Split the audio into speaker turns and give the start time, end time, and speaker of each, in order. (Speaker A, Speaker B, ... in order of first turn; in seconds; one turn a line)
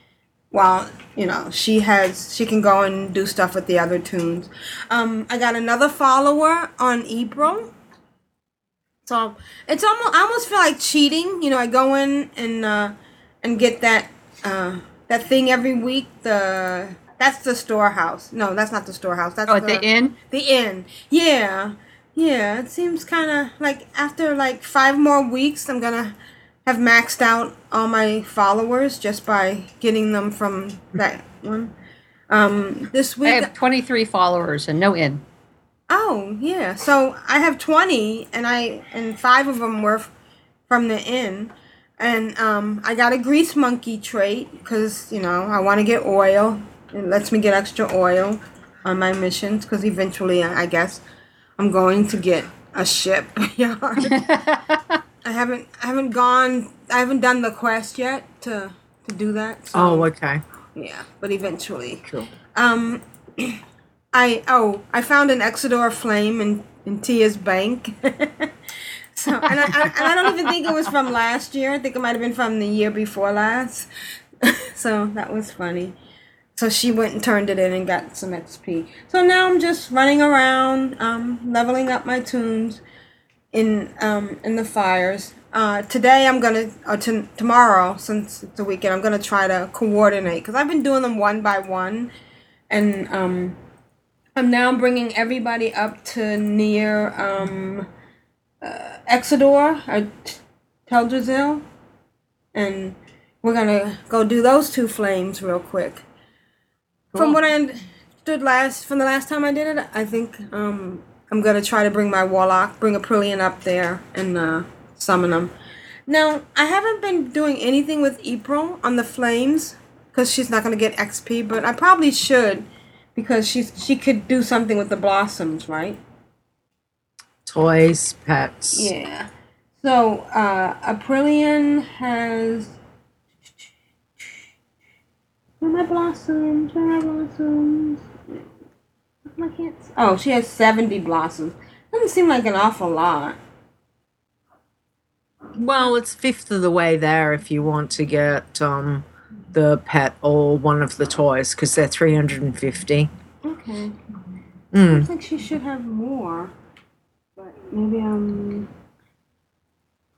Speaker A: 0.5-7.7
Speaker A: 9.1-26.1
Speaker B: 19.5-20.1
Speaker A: 26.7-31.7
Speaker A: 32.3-33.5
Speaker B: 33.2-35.2
Speaker A: 35.9-40.1
Speaker A: 40.7-51.0
Speaker A: 51.6-54.2
Speaker B: 54.0-55.0
Speaker A: 55.2-60.1
Speaker C: 59.7-60.4
Speaker A: 60.8-63.6
Speaker C: 62.0-62.3
Speaker A: 64.1-68.5
Speaker A: 69.2-73.9
Speaker B: 69.4-70.7
Speaker A: 74.4-76.0
Speaker A: 76.5-82.8
Speaker A: 83.5-92.1
Speaker A: 92.7-93.6
Speaker A: 94.4-97.9
Speaker A: 98.6-100.4
Speaker A: 100.9-101.7
Speaker A: 102.5-106.0
Speaker B: 107.1-107.4
Speaker A: 107.2-115.5
Speaker A: 116.1-126.0
Speaker C: 127.5-128.9
Speaker A: 128.7-129.3
Speaker A: 129.8-132.8
Speaker A: 135.6-138.1
Speaker A: 139.3-143.4
Speaker C: 145.6-153.1
Speaker A: 153.4-154.0
Speaker C: 154.7-155.1
Speaker A: 154.9-156.5
Speaker A: 157.4-158.7